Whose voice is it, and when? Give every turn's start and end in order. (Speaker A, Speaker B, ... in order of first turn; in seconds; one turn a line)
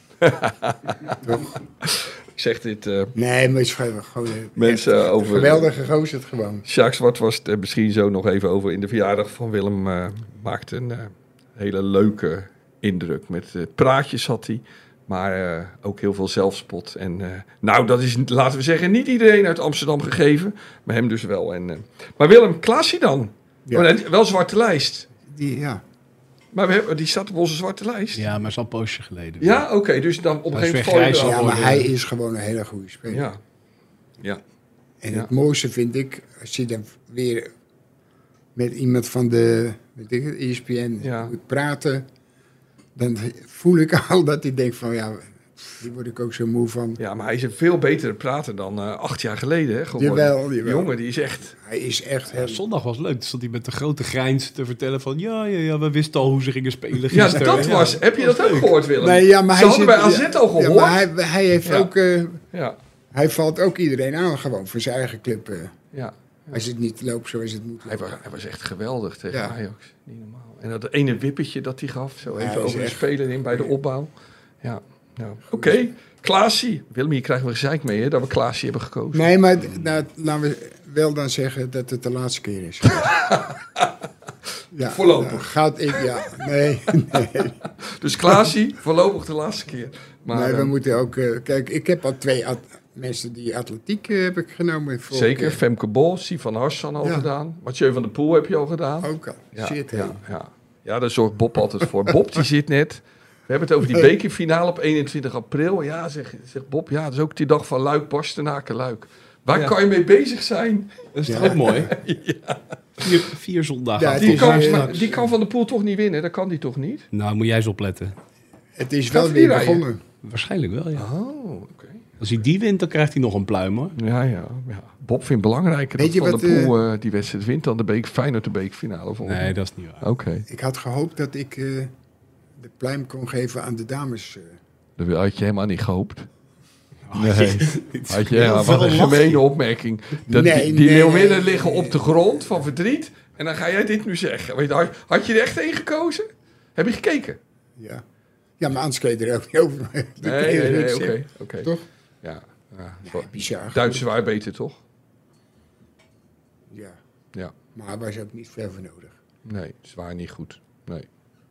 Speaker A: 0.2-1.2
Speaker B: 1.1-1.6
Speaker A: 1.8-3.1
Speaker B: 3.1-6.6
Speaker A: 4.5-5.7
Speaker A: 6.6-25.1
Speaker B: 25.3-25.8
Speaker A: 26.5-28.2
Speaker C: 28.1-29.6
Speaker A: 29.4-31.7
Speaker C: 30.5-31.9
Speaker B: 31.1-33.3
Speaker A: 33.1-33.4
Speaker B: 35.0-37.5
Speaker B: 38.5-42.0
Speaker A: 41.0-41.3
Speaker B: 42.9-47.0
Speaker A: 47.0-51.5
Speaker B: 50.0-50.9
Speaker B: 51.5-52.6
Speaker C: 52.3-58.7
Speaker A: 57.1-61.1
Speaker B: 57.3-57.9
Speaker B: 59.0-62.4
Speaker A: 61.6-61.9
Speaker A: 62.5-62.8
Speaker B: 63.1-65.7
Speaker A: 65.9-66.6
Speaker B: 66.5-68.2
Speaker A: 67.8-74.1
Speaker B: 69.3-69.5
Speaker B: 72.3-73.7
Speaker A: 74.6-79.3
Speaker B: 75.5-75.8
Speaker B: 79.1-83.3
Speaker A: 83.0-83.9
Speaker B: 84.7-87.6
Speaker A: 84.8-86.3
Speaker A: 87.6-90.8
Speaker B: 90.3-95.6
Speaker A: 95.1-113.0
Speaker B: 97.0-97.3
Speaker B: 99.0-100.2
Speaker B: 103.8-104.1
Speaker C: 111.1-111.9
Speaker B: 111.2-111.8
Speaker C: 113.0-115.3
Speaker B: 113.9-115.1
Speaker A: 114.2-117.0
Speaker C: 117.1-118.2
Speaker B: 118.8-120.0
Speaker A: 119.1-119.8
Speaker C: 120.2-121.0
Speaker A: 120.9-122.0
Speaker C: 122.2-123.9
Speaker A: 124.0-130.4
Speaker B: 126.0-126.7
Speaker C: 129.2-130.1
Speaker B: 130.5-131.9
Speaker B: 132.6-134.6
Speaker A: 135.0-136.3
Speaker C: 137.1-139.4
Speaker A: 137.1-147.4
Speaker B: 140.2-142.4
Speaker B: 147.8-148.0
Speaker B: 148.6-151.8
Speaker A: 150.2-151.7
Speaker A: 152.2-154.8
Speaker B: 153.0-154.1
Speaker B: 156.7-157.0
Speaker B: 157.7-159.2
Speaker A: 159.4-161.1